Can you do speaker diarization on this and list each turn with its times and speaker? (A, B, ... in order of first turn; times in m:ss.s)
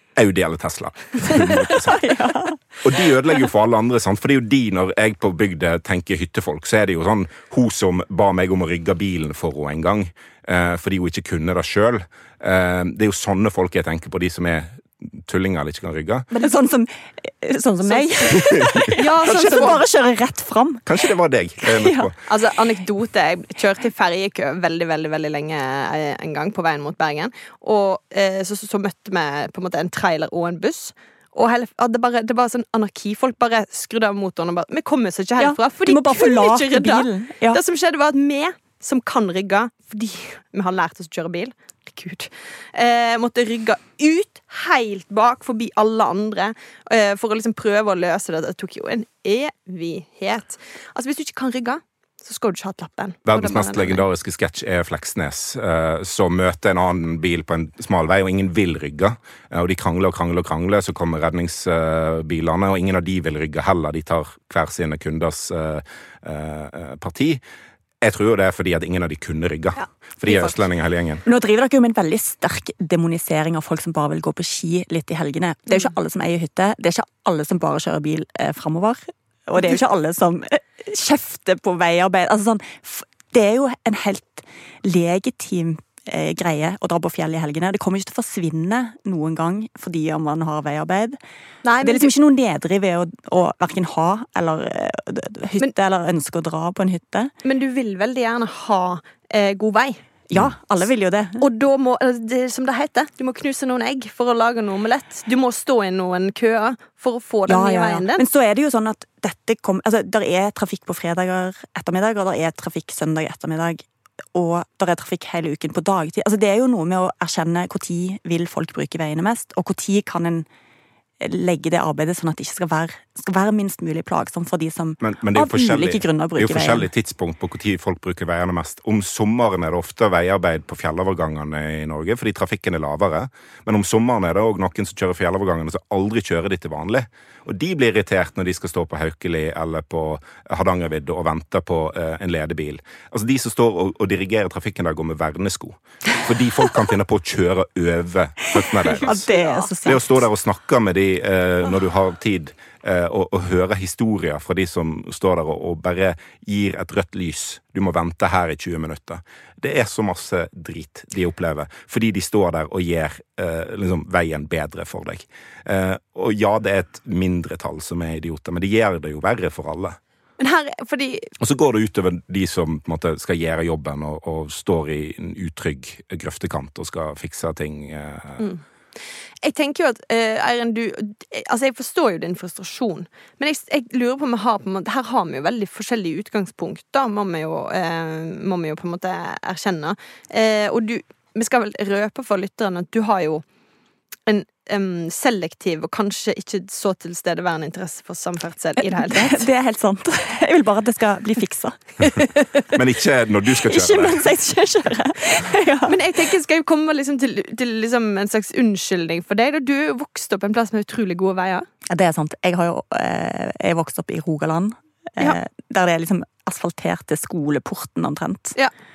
0:00.2-0:02.0 A
0:01.3-0:01.6 B
0:01.7-0:02.6 C
0:02.8-0:16.3 A
0:16.4-0:21.0 C
0:17.8-0:19.8 B
0:19.2-0:19.7 A
0:20.8-0:22.1 A
0:21.6-0:22.1 C
0:22.3-0:54.0 B
0:35.4-0:37.6 C
0:53.2-1:07.4 A
1:08.0-1:11.2 A
1:09.8-1:10.6 B
1:11.2-1:31.2 C
1:31.6-1:32.1 B
1:31.8-1:37.3 C
1:37.4-1:40.0 B
1:40.3-1:41.4 C
1:41.4-1:48.2 B
1:47.5-2:00.4 C
2:01.2-2:06.9 C
2:05.0-2:29.3 A
2:28.9-2:30.0 B
2:29.0-2:30.2 C
2:29.8-2:50.0 A
2:50.4-2:51.3 B
2:51.4-2:58.4 A
2:58.4-2:58.6 B
2:59.4-3:13.4 B
3:14.2-3:19.5 B
3:18.8-3:22.2 C
3:22.7-3:24.2 A
3:23.6-3:26.0 C
3:25.9-3:31.7 B
3:31.9-3:38.6 C